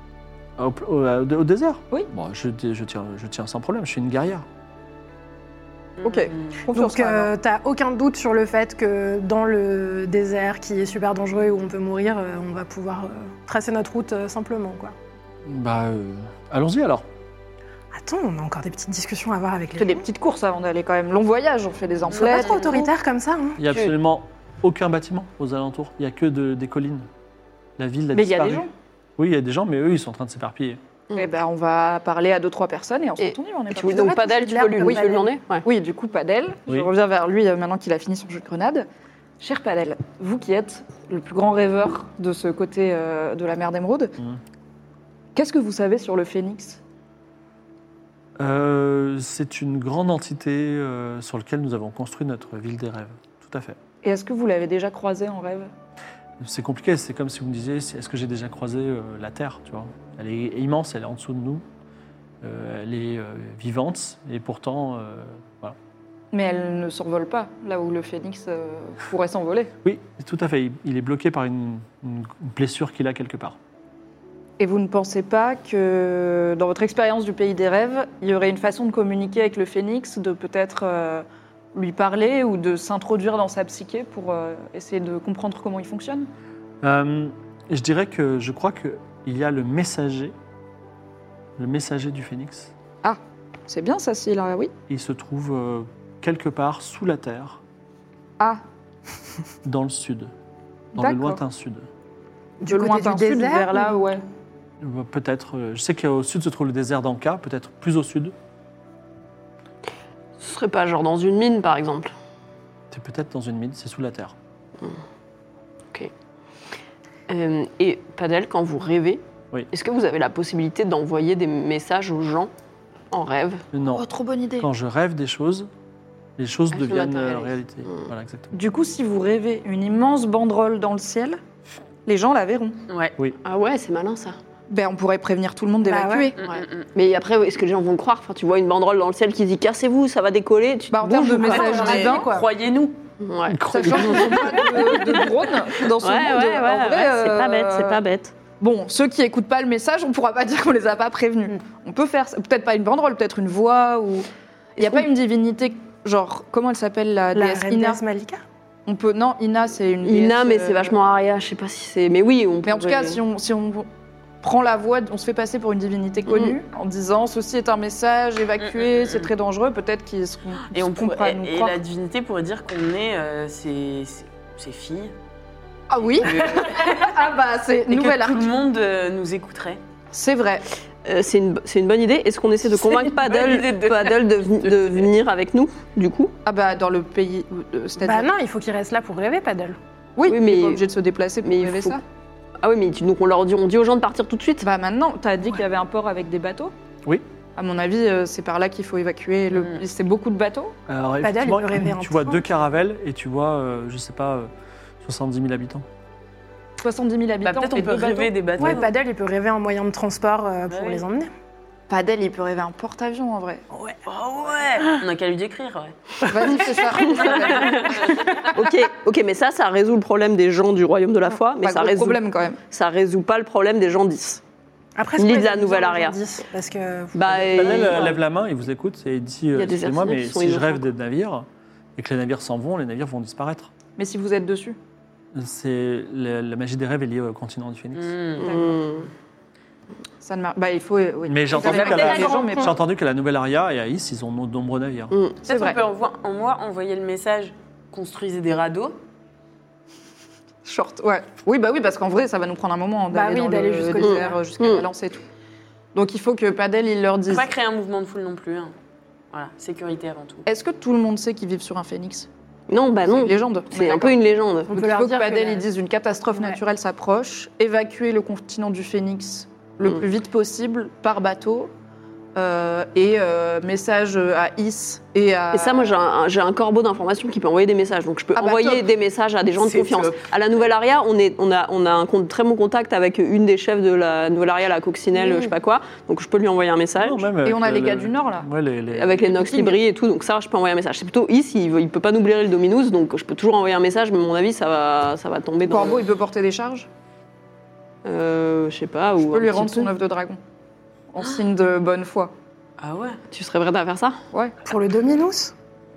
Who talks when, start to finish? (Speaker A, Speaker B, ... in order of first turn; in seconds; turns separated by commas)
Speaker A: 0.6-4.5, Speaker B: 6.0-6.6, Speaker C: 6.0-7.3, Speaker D: 6.7-14.9, Speaker A: 15.4-17.1, Speaker D: 17.9-20.1, Speaker C: 19.8-22.9, Speaker D: 22.1-23.6, Speaker A: 23.6-27.1, Speaker A: 27.8-28.6, Speaker C: 28.1-28.7, Speaker A: 29.2-30.8, Speaker C: 31.1-34.2, Speaker E: 33.2-35.6, Speaker D: 33.8-35.3, Speaker C: 35.6-38.9, Speaker C: 39.4-44.2, Speaker C: 45.4-46.8, Speaker A: 48.4-53.8, Speaker C: 54.0-55.7, Speaker A: 56.4-61.6, Speaker A: 62.4-65.8, Speaker C: 66.3-69.7, Speaker A: 69.8-73.6, Speaker C: 74.6-86.3, Speaker A: 86.8-90.3, Speaker A: 91.6-92.7, Speaker C: 93.0-94.7, Speaker A: 94.9-97.6, Speaker A: 99.7-100.3, Speaker C: 101.0-101.4, Speaker A: 101.0-101.9, Speaker D: 102.6-104.0, Speaker C: 102.6-104.2, Speaker A: 104.8-108.3, Speaker E: 110.4-112.1, Speaker A: 112.9-114.3, Speaker E: 117.3-122.5, Speaker E: 123.1-123.6, Speaker A: 123.7-124.0, Speaker C: 123.9-124.7, Speaker A: 124.6-125.7, Speaker A: 126.4-128.5, Speaker E: 126.7-128.1, Speaker C: 128.5-131.4, Speaker C: 132.1-132.8, Speaker B: 132.9-133.2, Speaker E: 133.4-134.4, Speaker C: 134.7-136.3, Speaker D: 135.8-136.3, Speaker B: 136.4-136.9, Speaker E: 136.4-141.8, Speaker C: 140.9-142.3, Speaker D: 141.4-142.5, Speaker B: 141.5-143.0, Speaker E: 143.2-145.3, Speaker A: 143.5-144.7, Speaker C: 143.7-148.0, Speaker E: 146.0-148.3, Speaker C: 148.6-158.0, Speaker D: 157.3-158.4, Speaker C: 158.9-160.9, Speaker E: 160.0-163.2, Speaker C: 162.7-163.9, Speaker C: 164.4-171.8, Speaker E: 166.3-166.6, Speaker B: 168.6-169.3, Speaker B: 170.7-175.1, Speaker C: 175.9-178.5, Speaker B: 176.2-177.2, Speaker B: 177.9-179.8, Speaker C: 180.1-180.7, Speaker E: 181.1-186.3, Speaker B: 182.7-185.1, Speaker C: 186.4-188.3, Speaker D: 188.0-189.8, Speaker C: 190.2-192.0, Speaker E: 190.3-190.8, Speaker E: 191.4-192.0, Speaker E: 192.6-194.6, Speaker C: 194.6-196.7, Speaker C: 197.6-200.8, Speaker A: 200.9-204.5, Speaker D: 201.2-202.5, Speaker A: 205.0-205.8, Speaker C: 206.8-208.8, Speaker B: 207.4-208.9, Speaker D: 208.6-211.3, Speaker B: 210.7-211.0, Speaker C: 211.9-213.6, Speaker D: 213.7-214.0, Speaker B: 214.1-215.9, Speaker C: 216.2-218.3, Speaker B: 216.5-218.5, Speaker E: 217.0-217.4, Speaker E: 218.4-224.4, Speaker C: 221.6-222.6, Speaker D: 225.0-228.1, Speaker E: 225.2-226.2, Speaker E: 227.1-228.2, Speaker A: 227.6-231.5, Speaker E: 229.5-230.9, Speaker A: 232.0-233.7, Speaker C: 234.0-234.8, Speaker A: 235.3-238.2, Speaker B: 237.9-238.8, Speaker E: 238.4-239.1, Speaker C: 238.4-238.7, Speaker C: 240.2-242.7, Speaker A: 241.3-245.1, Speaker B: 241.6-242.4, Speaker D: 241.8-242.7, Speaker E: 245.1-245.4, Speaker C: 245.4-245.8, Speaker B: 245.4-249.0, Speaker C: 250.7-255.2, Speaker D: 253.1-254.4, Speaker E: 254.0-254.8, Speaker C: 255.9-257.5, Speaker B: 257.3-258.7, Speaker B: 259.3-260.5, Speaker C: 260.5-262.3, Speaker E: 262.7-264.8, Speaker C: 263.1-264.2, Speaker D: 264.7-265.6, Speaker C: 264.7-271.7, Speaker C: 272.4-276.0, Speaker E: 275.5-287.3, Speaker C: 278.4-278.9, Speaker B: 279.6-280.3, Speaker A: 287.0-289.2, Speaker C: 287.4-288.5, Speaker E: 288.9-296.1, Speaker C: 289.3-289.8, Speaker C: 295.7-296.9, Speaker E: 298.1-299.9, Speaker C: 299.3-300.4, Speaker C: 301.1-302.3, Speaker B: 302.8-303.2, Speaker E: 303.3-304.2, Speaker D: 304.6-305.5